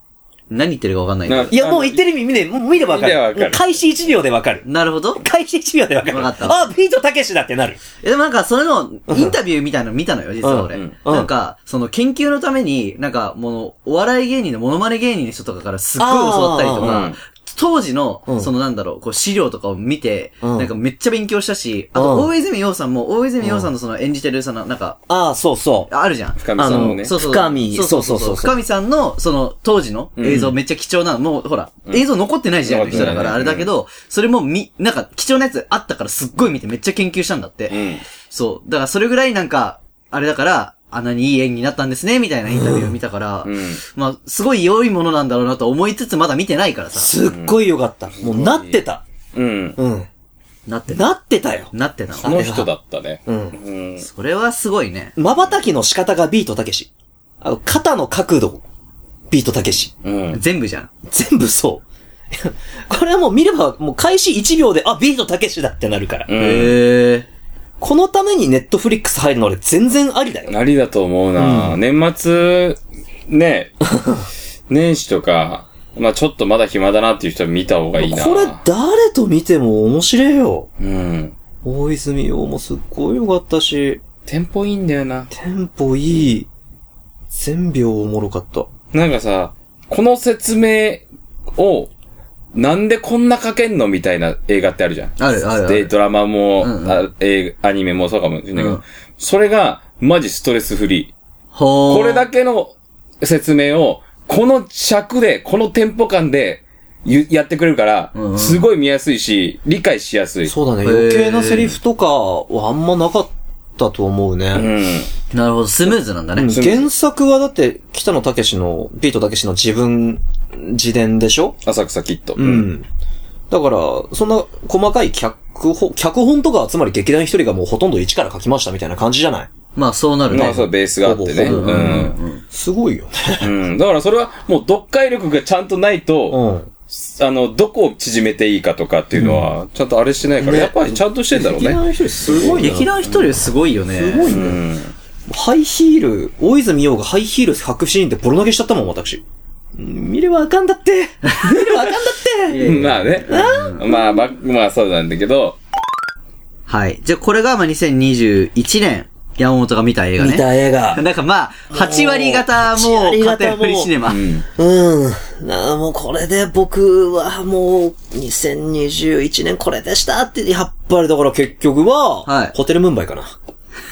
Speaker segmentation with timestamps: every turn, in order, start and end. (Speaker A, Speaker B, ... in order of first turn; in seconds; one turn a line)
Speaker A: 0.5-1.6
Speaker B: 1.2-2.0
Speaker C: 1.5-4.7
Speaker B: 2.7-3.7
Speaker A: 4.7-5.2
Speaker C: 5.2-7.8
Speaker A: 6.0-6.7
Speaker A: 8.0-25.0
Speaker C: 9.1-9.4
Speaker C: 10.4-11.3
Speaker C: 16.0-17.1
Speaker B: 16.8-17.2
Speaker C: 20.4-20.7
Speaker C: 21.9-22.3
Speaker C: 23.4-23.7
Speaker C: 25.1-25.9
Speaker A: 25.9-47.1
Speaker B: 26.4-27.1
Speaker C: 26.6-28.6
Speaker B: 30.2-30.5
Speaker B: 32.6-33.7
Speaker C: 32.9-33.2
Speaker B: 37.7-38.0
Speaker C: 42.5-42.9
Speaker B: 43.4-43.8
Speaker C: 46.9-49.0
Speaker B: 47.2-47.6
Speaker B: 48.1-48.8
Speaker B: 49.3-49.8
Speaker C: 49.8-50.1
Speaker C: 50.7-52.7
Speaker A: 51.7-52.4
Speaker B: 52.2-54.0
Speaker C: 53.2-53.6
Speaker A: 54.0-55.1
Speaker C: 55.1-56.9
Speaker C: 57.4-58.6
Speaker C: 59.3-59.9
Speaker B: 60.0-60.4
Speaker A: 60.3-60.9
Speaker C: 61.1-66.3
Speaker B: 66.3-66.8
Speaker A: 66.3-67.3
Speaker C: 67.8-70.5
Speaker B: 70.5-73.8
Speaker C: 71.4-71.8
Speaker C: 73.9-74.2
Speaker B: 74.7-78.6
Speaker C: 78.0-80.7
Speaker B: 80.8-81.3
Speaker C: 81.6-84.0
Speaker B: 84.2-85.3
Speaker C: 85.3-86.5
Speaker C: 87.3-88.7
Speaker B: 88.9-91.0
Speaker B: 91.5-91.9
Speaker B: 92.5-101.1
Speaker A: 95.2-95.9
Speaker A: 96.6-97.0
Speaker A: 98.5-98.8
Speaker A: 101.5-102.2
Speaker B: 101.9-110.5
Speaker A: 108.1-108.6
Speaker C: 110.5-114.7
Speaker A: 110.8-111.7
Speaker B: 114.5-115.1
Speaker A: 115.3-116.6
Speaker C: 116.3-121.6
Speaker B: 116.5-116.9
Speaker B: 121.6-122.7
Speaker C: 122.3-122.8
Speaker C: 123.5-129.5
Speaker A: 129.8-130.6
Speaker B: 130.3-132.2
Speaker C: 130.3-133.5
Speaker A: 131.4-132.4
Speaker B: 133.4-143.3
Speaker C: 136.3-136.7
Speaker C: 140.4-142.9
Speaker A: 142.3-144.4
Speaker C: 143.9-144.6
Speaker B: 144.2-144.9
Speaker C: 145.3-149.2
Speaker C: 149.8-154.1
Speaker A: 151.4-151.7
Speaker A: 152.5-153.9
Speaker B: 152.6-155.6
Speaker A: 156.7-164.2
Speaker C: 160.2-161.0
Speaker C: 161.7-163.9
Speaker B: 164.0-164.4
Speaker C: 164.6-173.3
Speaker A: 172.3-172.5